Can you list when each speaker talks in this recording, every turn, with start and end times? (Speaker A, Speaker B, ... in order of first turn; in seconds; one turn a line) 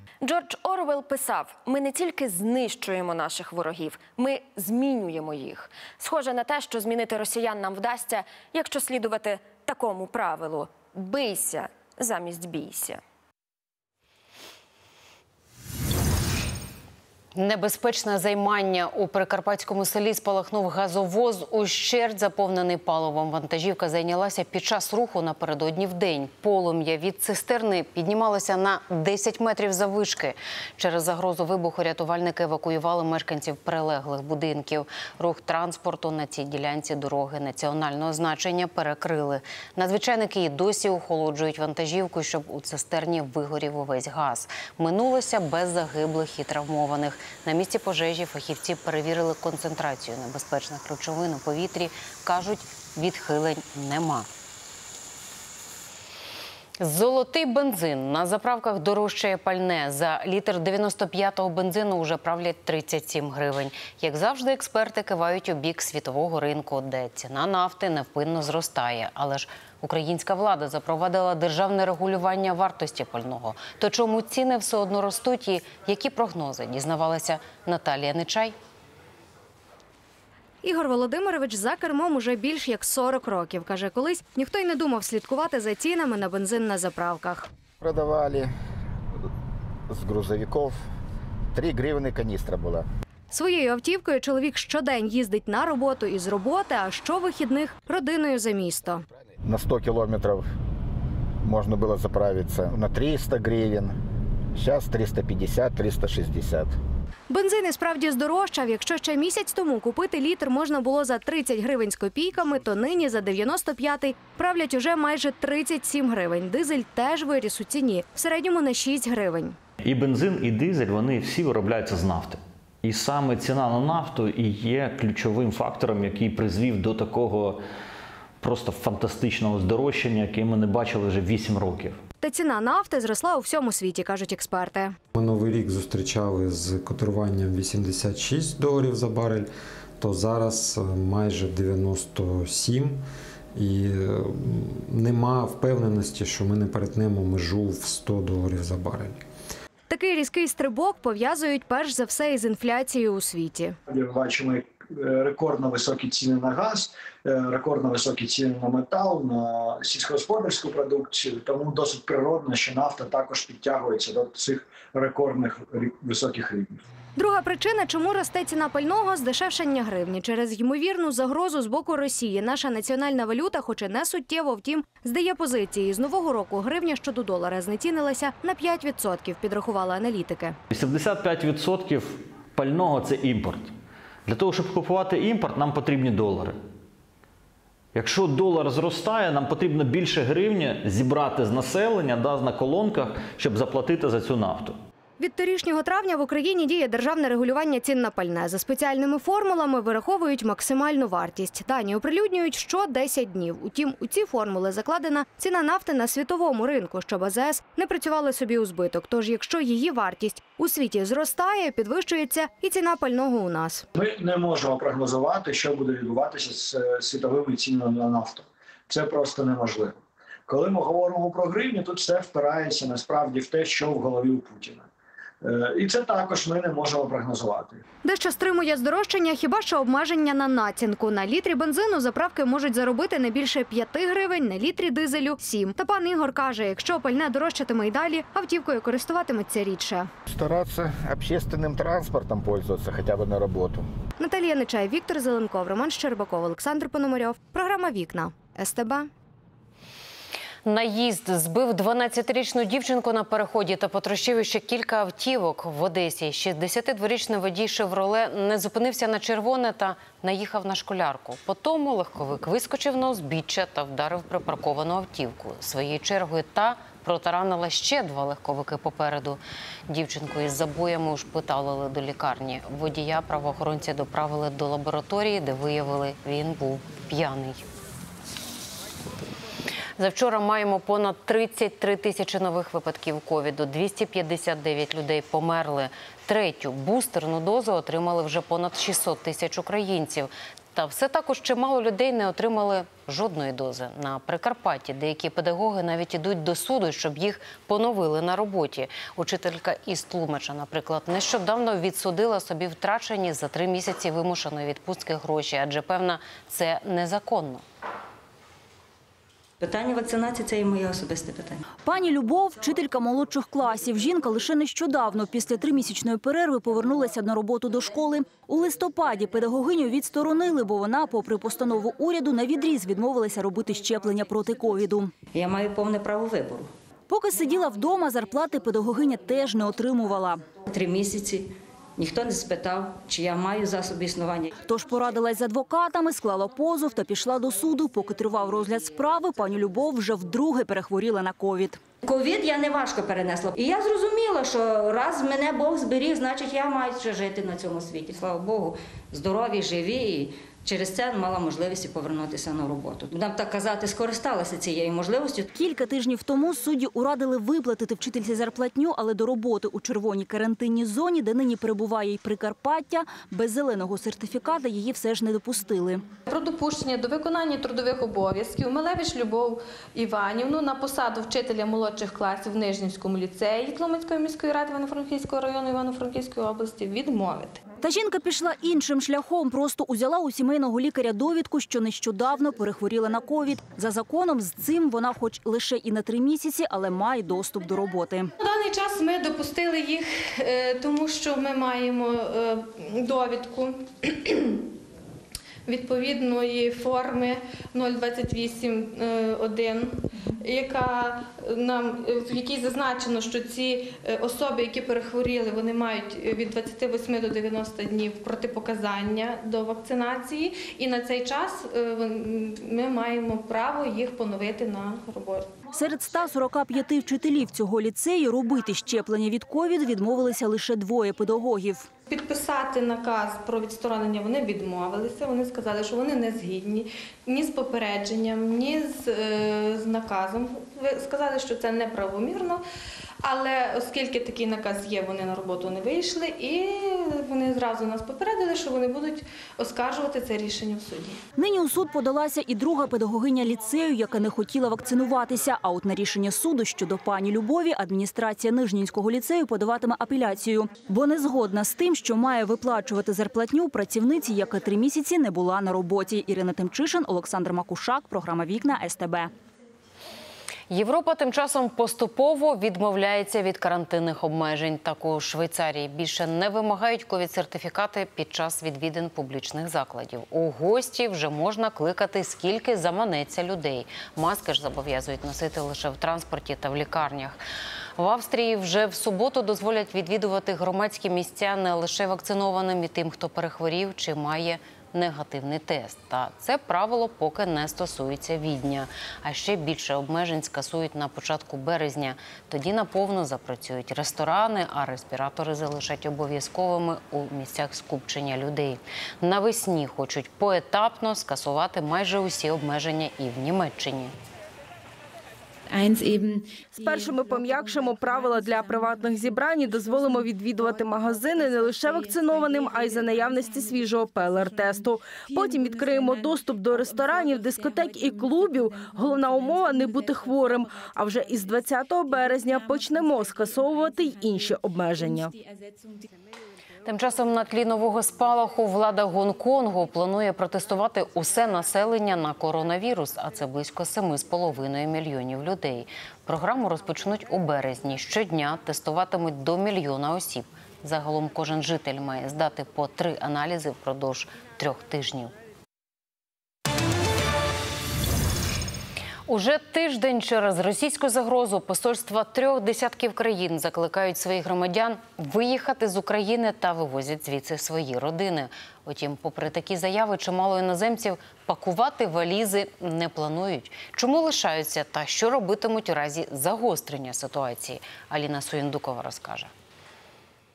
Speaker A: 0.2-13.0
Speaker B: 17.3-54.3
Speaker B: 56.8-78.5
Speaker C: 80.6-87.5
Speaker D: 87.8-88.5
Speaker D: 89.9-90.8
Speaker D: 91.5-92.8
Speaker C: 93.3-99.0
Speaker D: 99.4-100.5
Speaker D: 101.4-104.0
Speaker D: 104.5-106.7
Speaker C: 107.3-119.5
Speaker E: 119.8-127.6
Speaker E: 128.4-132.0
Speaker C: 132.2-134.9
Speaker F: 135.1-143.0
Speaker F: 143.5-149.2
Speaker C: 149.9-153.8
Speaker G: 153.9-166.8
Speaker C: 167.2-180.6
Speaker E: 180.7-183.7
Speaker E: 184.2-186.6
Speaker E: 187.9-194.8
Speaker C: 195.2-213.8
Speaker G: 214.0-224.9
Speaker G: 225.4-227.8
Speaker C: 228.0-240.1
Speaker D: 240.3-243.8
Speaker C: 244.2-249.1
Speaker B: 250.6-277.6
Speaker B: 280.0-307.6
Speaker H: 309.6-311.6
Speaker I: 311.8-325.1
Speaker H: 325.3-326.7
Speaker I: 327.1-330.4
Speaker H: 330.7-334.5
Speaker I: 334.7-341.8
Speaker H: 342.0-355.5
Speaker I: 355.5-366.0
Speaker J: 366.3-377.6
Speaker I: 377.8-388.3
Speaker J: 388.4-394.6
Speaker J: 395.7-415.5
Speaker I: 415.7-421.9
Speaker J: 422.1-432.6
Speaker J: 433.2-441.2
Speaker I: 441.4-459.3
Speaker B: 460.7-477.4
Speaker B: 478.0-504.1
Speaker K: 506.7-525.3
Speaker B: 526.8-545.3
Speaker B: 549.3-569.5